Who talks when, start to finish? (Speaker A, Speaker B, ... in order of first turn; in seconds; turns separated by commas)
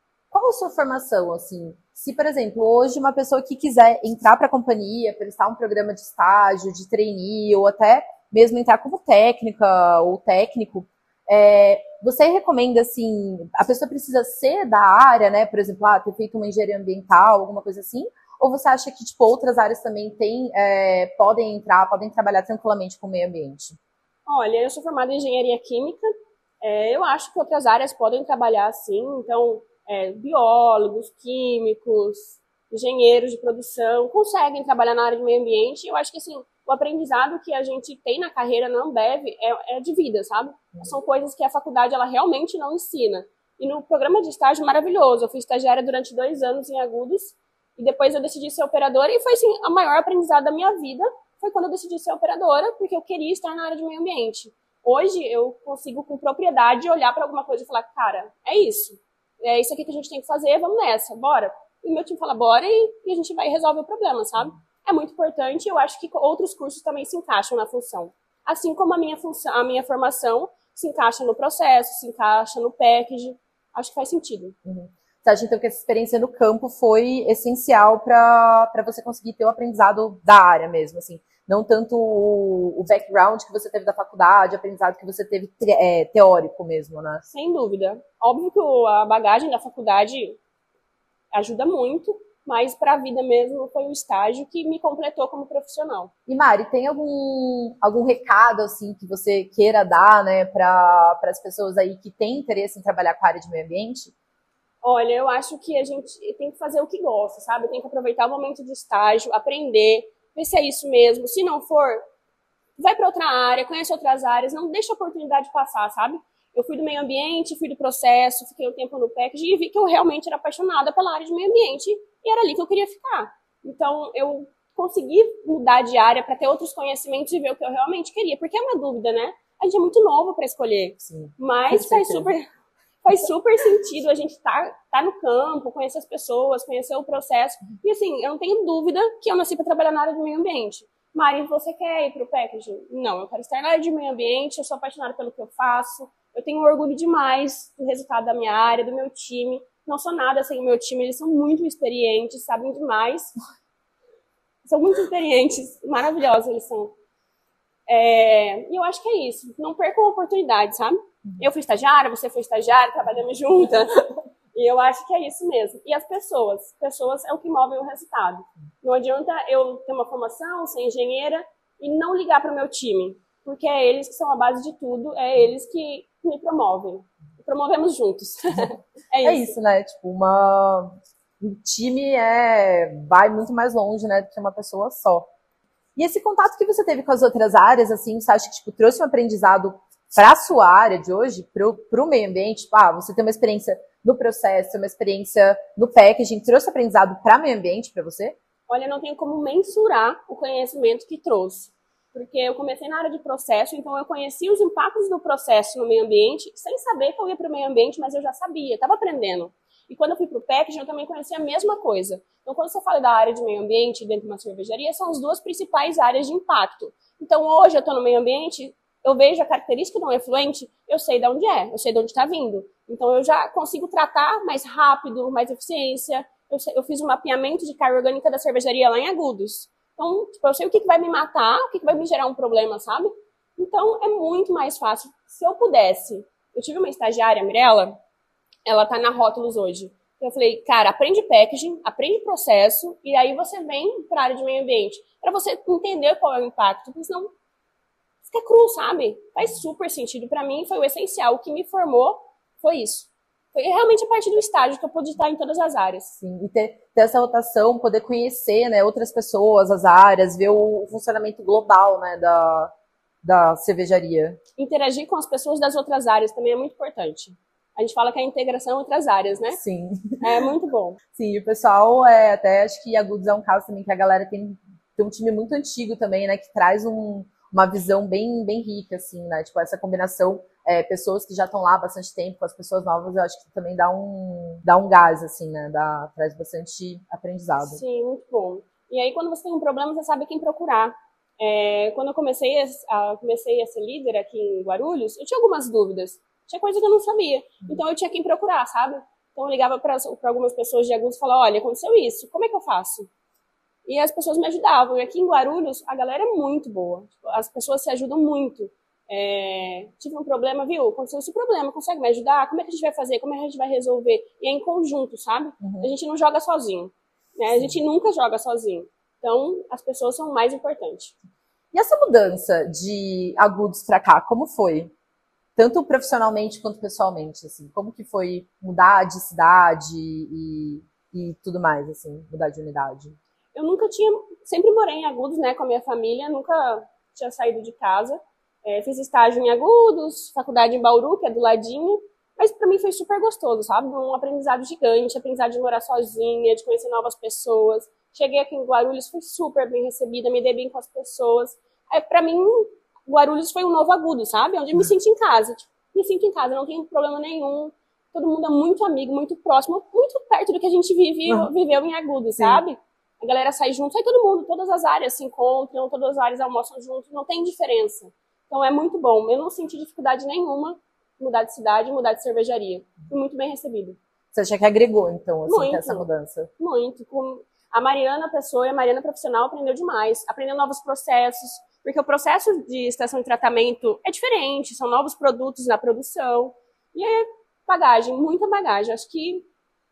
Speaker A: 0.3-23.8, Speaker B: 24.2-74.5, Speaker A: 74.7-87.2, Speaker B: 87.3-90.4, Speaker B: 91.3-96.1, Speaker A: 96.3-104.1, Speaker B: 104.8-112.0, Speaker B: 112.8-132.4, Speaker A: 131.1-132.3, Speaker B: 133.0-153.3, Speaker B: 154.6-156.9, Speaker B: 157.9-179.5, Speaker A: 179.2-185.3, Speaker A: 186.0-198.4, Speaker B: 198.7-238.0, Speaker B: 238.7-247.3, Speaker B: 248.2-256.1, Speaker A: 256.2-262.7, Speaker A: 263.2-264.4, Speaker B: 264.6-269.6, Speaker A: 269.5-270.2, Speaker B: 270.2-271.0, Speaker A: 271.1-287.8, Speaker B: 287.6-303.1, Speaker B: 303.9-321.1, Speaker A: 315.6-315.9, Speaker A: 321.7-324.9, Speaker A: 325.6-333.2, Speaker B: 333.5-374.0, Speaker A: 374.3-376.5, Speaker B: 375.5-389.5